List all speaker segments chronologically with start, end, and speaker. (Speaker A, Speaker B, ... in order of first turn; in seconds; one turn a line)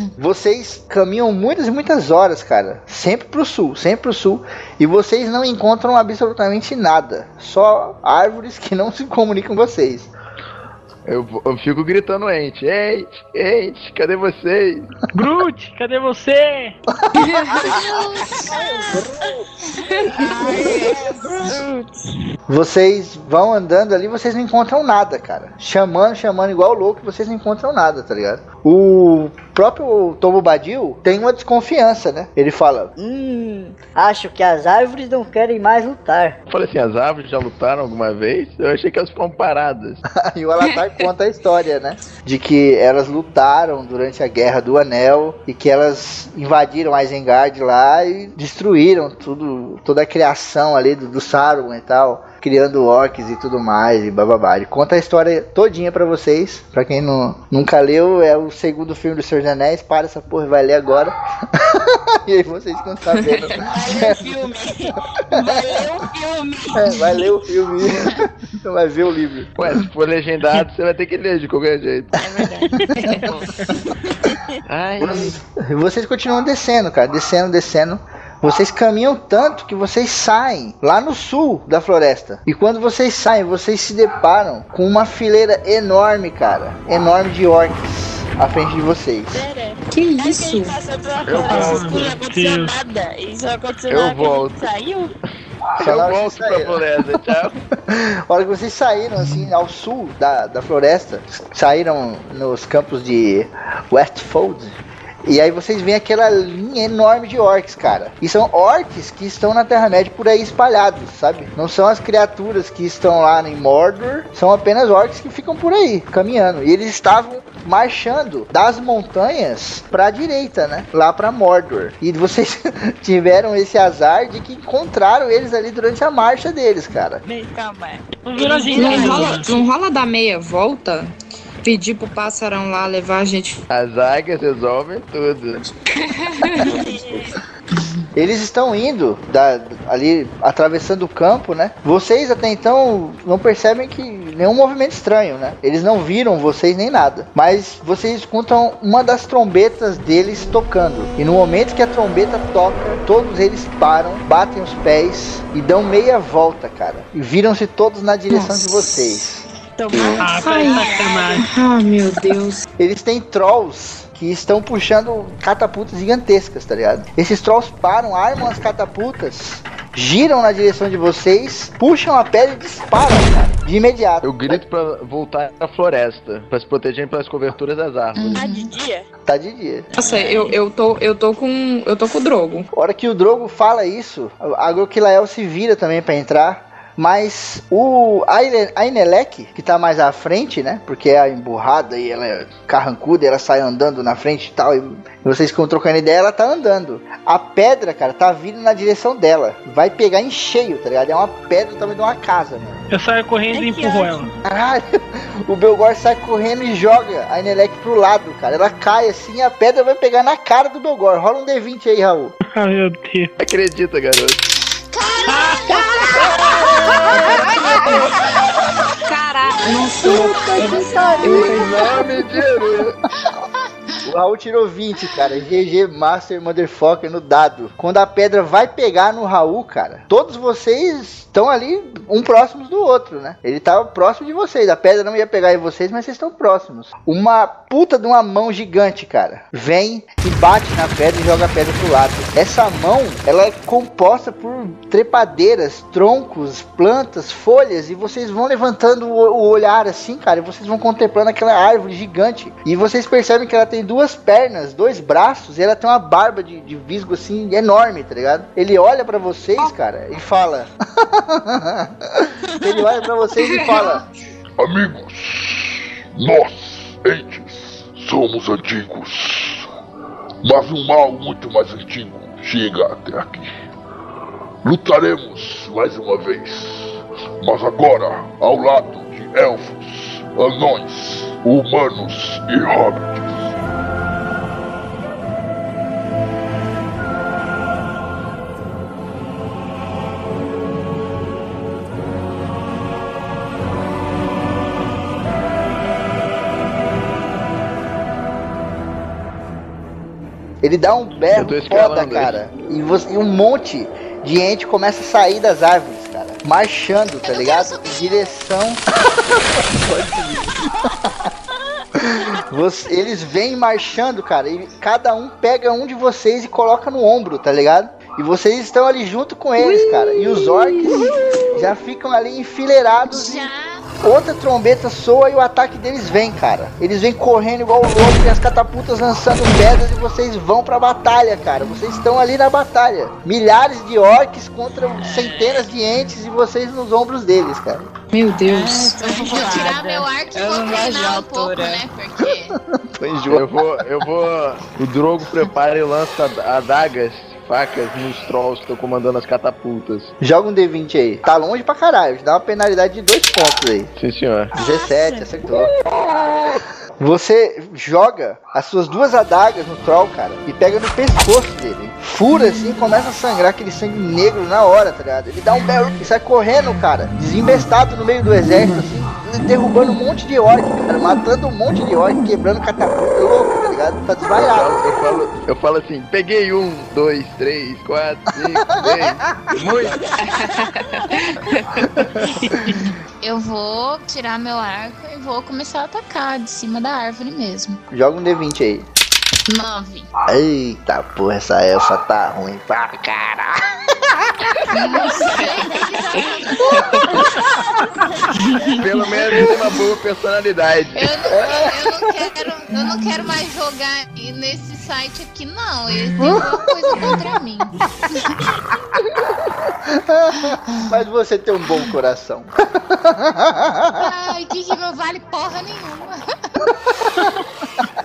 Speaker A: 0.2-10.1
Speaker B: 11.1-14.9
Speaker C: 15.1-16.8
Speaker D: 17.1-17.8
Speaker E: 17.7-18.5
Speaker F: 18.5-18.9
Speaker G: 18.9-19.3
Speaker D: 19.9-20.8
Speaker F: 20.1-22.1
Speaker A: 22.5-32.9
Speaker G: 33.0-36.4
Speaker B: 36.5-40.0
Speaker A: 40.1-64.2
Speaker D: 40.6-41.0
Speaker D: 63.1-63.5
Speaker F: 63.7-67.3
Speaker A: 65.3-65.7
Speaker A: 66.7-69.6
Speaker B: 69.6-72.1
Speaker F: 72.1-74.5
Speaker D: 73.0-73.3
Speaker B: 74.7-75.3
Speaker A: 75.0-89.4
Speaker F: 89.3-95.1
Speaker D: 89.9-90.8
Speaker B: 91.2-92.1
Speaker C: 91.5-92.7
Speaker B: 93.9-94.6
Speaker A: 95.8-96.8
Speaker B: 95.8-97.6
Speaker A: 97.9-127.2
Speaker F: 127.2-129.7
Speaker C: 128.2-129.5
Speaker D: 128.7-131.1
Speaker D: 131.6-133.6
Speaker B: 133.7-135.7
Speaker D: 135.9-136.9
Speaker F: 136.6-137.3
Speaker A: 138.2-159.4
Speaker D: 158.3-159.0
Speaker F: 159.8-161.4
Speaker D: 159.9-162.6
Speaker C: 160.2-161.4
Speaker A: 162.8-174.6
Speaker B: 174.2-178.4
Speaker E: 178.1-178.7
Speaker F: 178.3-179.0
Speaker A: 179.2-179.9
Speaker D: 179.9-182.7
Speaker A: 182.7-202.8
Speaker C: 202.9-204.3
Speaker F: 203.5-204.3
Speaker A: 204.4-212.3
Speaker C: 212.5-213.3
Speaker B: 213.4-214.4
Speaker E: 214.9-216.9
Speaker C: 215.2-215.7
Speaker F: 216.2-218.0
Speaker D: 217.1-218.0
Speaker D: 219.0-221.9
Speaker A: 220.0-221.7
Speaker B: 221.2-223.0
Speaker A: 224.1-264.0
Speaker D: 263.5-263.8
Speaker E: 263.7-264.0
Speaker H: 264.6-269.7
Speaker H: 270.4-273.5
Speaker H: 274.6-283.5
Speaker A: 300.6-308.8
Speaker B: 301.3-302.4
Speaker E: 307.2-308.4
Speaker A: 309.3-310.6
Speaker A: 312.0-323.5
Speaker D: 319.6-321.6
Speaker E: 323.1-323.9
Speaker A: 324.0-337.9
Speaker D: 338.1-339.5
Speaker F: 338.5-341.8
Speaker E: 339.1-342.6
Speaker A: 342.9-343.7
Speaker B: 343.3-350.1
Speaker A: 350.2-353.9
Speaker B: 353.9-354.5
Speaker A: 354.5-355.7
Speaker B: 355.8-356.3
Speaker A: 357.0-374.9
Speaker B: 374.4-380.1
Speaker A: 378.7-379.2
Speaker D: 380.2-381.8
Speaker E: 383.2-387.8
Speaker A: 387.9-388.9
Speaker E: 389.5-390.1
Speaker A: 390.3-394.3
Speaker E: 394.7-396.9
Speaker F: 395.0-396.2
Speaker D: 396.7-397.0
Speaker F: 398.3-398.8
Speaker B: 398.8-401.1
Speaker E: 400.9-408.4
Speaker A: 401.3-402.1
Speaker A: 406.2-407.1
Speaker A: 409.9-414.1
Speaker E: 410.5-410.9
Speaker E: 414.0-416.2